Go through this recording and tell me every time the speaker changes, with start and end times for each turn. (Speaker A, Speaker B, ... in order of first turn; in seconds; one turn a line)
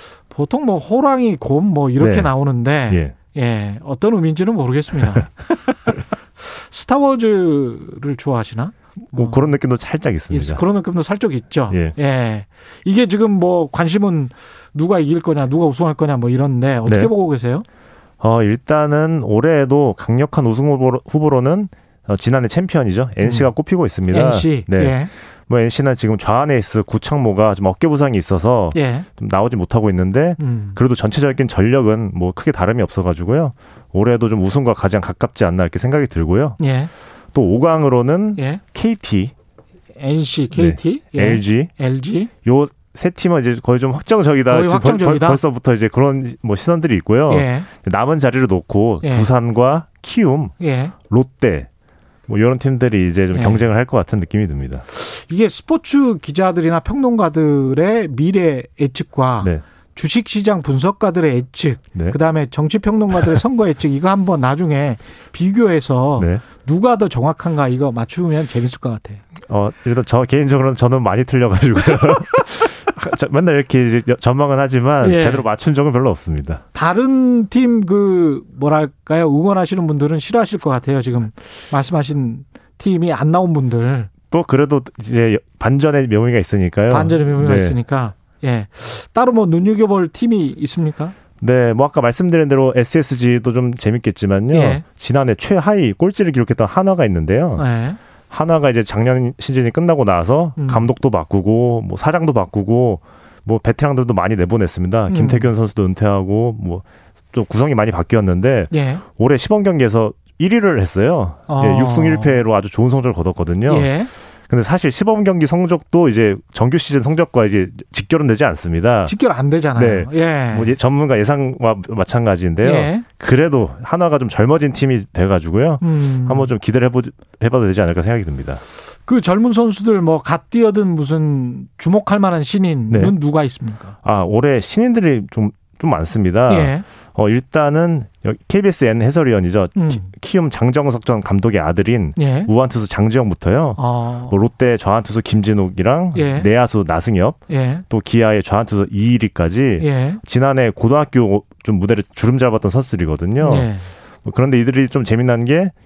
Speaker A: 0.3-9.5
Speaker B: 2.0-2.3
Speaker B: 2.9-3.1
Speaker B: 9.1-10.6
Speaker A: 10.3-17.6
Speaker B: 18.2-24.9
Speaker A: 23.2-23.5
Speaker A: 24.1-25.1
Speaker B: 25.5-36.6
Speaker A: 28.7-29.1
Speaker A: 30.4-30.8
Speaker A: 36.6-36.9
Speaker B: 37.3-39.3
Speaker A: 38.4-38.6
Speaker A: 40.0-42.3
Speaker B: 40.5-41.7
Speaker B: 42.4-50.5
Speaker A: 44.5-45.4
Speaker A: 47.3-47.7
Speaker A: 49.0-49.3
Speaker A: 50.6-50.9
Speaker B: 51.1-51.7
Speaker B: 52.3-54.8
Speaker A: 53.3-53.6
Speaker A: 54.9-69.2
Speaker B: 66.2-66.4
Speaker B: 69.5-76.6
Speaker A: 75.0-75.5
Speaker A: 76.7-84.1
Speaker B: 84.3-87.8
Speaker A: 86.9-91.1
Speaker B: 91.4-97.6
Speaker A: 94.5-94.8
Speaker A: 97.5-98.0
Speaker B: 98.3-113.9
Speaker A: 100.6-100.9
Speaker A: 105.1-105.5
Speaker A: 108.7-109.0
Speaker A: 111.5-112.4
Speaker A: 113.7-114.1
Speaker B: 114.5-119.1
Speaker A: 119.0-120.8
Speaker B: 119.7-128.6
Speaker A: 122.6-123.0
Speaker A: 125.8-126.5
Speaker A: 128.8-133.9
Speaker B: 132.9-133.2
Speaker B: 134.0-147.4
Speaker A: 136.5-136.8
Speaker A: 139.7-140.1
Speaker A: 142.2-142.5
Speaker A: 143.8-144.3
Speaker A: 146.1-146.5
Speaker A: 147.5-147.8
Speaker B: 147.9-153.7
Speaker A: 149.8-150.2
Speaker A: 153.4-153.9
Speaker B: 154.2-155.7